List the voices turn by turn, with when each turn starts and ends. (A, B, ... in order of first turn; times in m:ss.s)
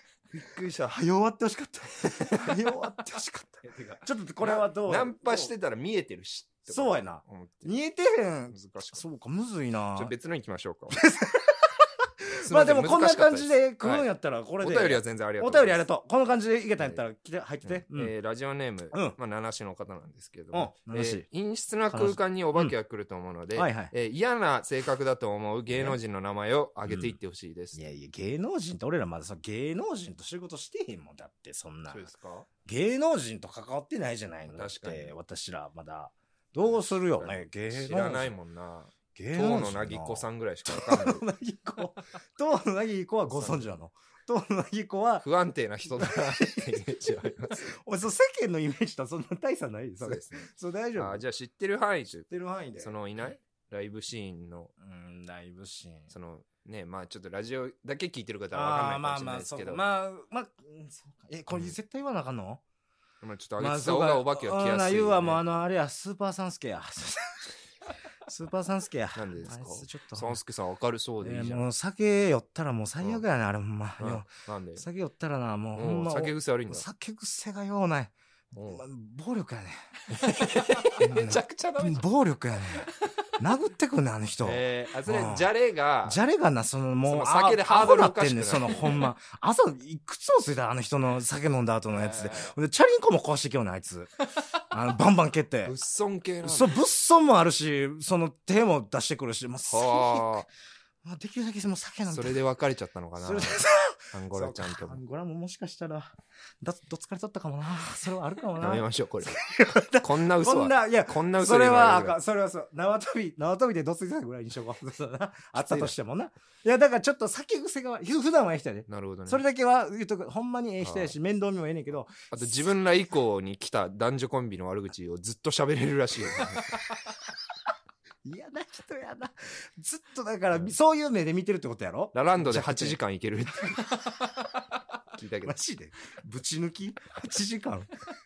0:00.3-0:01.0 A
0:00.9-0:05.5 B
0:02.0-0:02.6 A
0:03.6-0:07.7 A
0:06.7-0:10.1 B
0:08.5-0:09.0 A
0:09.9-0:11.0 A
0:10.9-0:18.1 B
0:12.4-0:14.1 A
0:14.6-0:15.8 A
0:17.6-0:27.8 A
0:18.9-0:19.2 B
0:20.5-0:21.2 B
0:21.9-0:22.7 B
0:23.5-0:23.9 B
0:26.9-0:27.1 B
0:27.7-0:32.1 B
0:31.9-0:32.5 A
0:32.6-0:38.3 B
0:34.5-0:35.1 A
0:36.7-0:41.2 A
0:39.1-0:45.2 B
0:43.3-0:43.7 A
0:45.2-0:47.7 A
0:46.0-0:51.2 B
0:50.0-0:54.7 A
0:52.3-0:52.9 B
0:54.8-0:56.1 B
0:56.1-0:59.8 A
0:58.5-1:02.6 B
1:03.2-1:05.4 A
1:03.6-1:07.5 B
1:08.3-1:10.4 B
1:09.1-1:11.7 A
1:11.2-1:18.1 B
1:14.0-1:14.8 A
1:15.8-1:16.8 A
1:18.5-1:18.8 A
1:18.6-1:19.8 B
1:20.1-1:22.0 A
1:20.9-1:25.5 B
1:24.4-1:26.2 A
1:26.0-1:35.7 B
1:27.0-1:29.1 A
1:31.9-1:32.5 A
1:35.6-1:36.8 A
1:36.4-1:40.4 B
1:39.7-1:40.5 A
1:41.0-1:42.4 B
1:42.1-1:45.0 A
1:43.2-2:02.7 B
1:48.6-1:52.2 A
1:55.5-1:55.9 A
1:58.9-1:59.4 A
2:00.8-2:01.2 A
2:02.3-2:06.8 A
2:08.2-2:13.0 B
2:12.1-2:14.0 A
2:15.1-2:15.6 A
2:15.4-2:17.9 B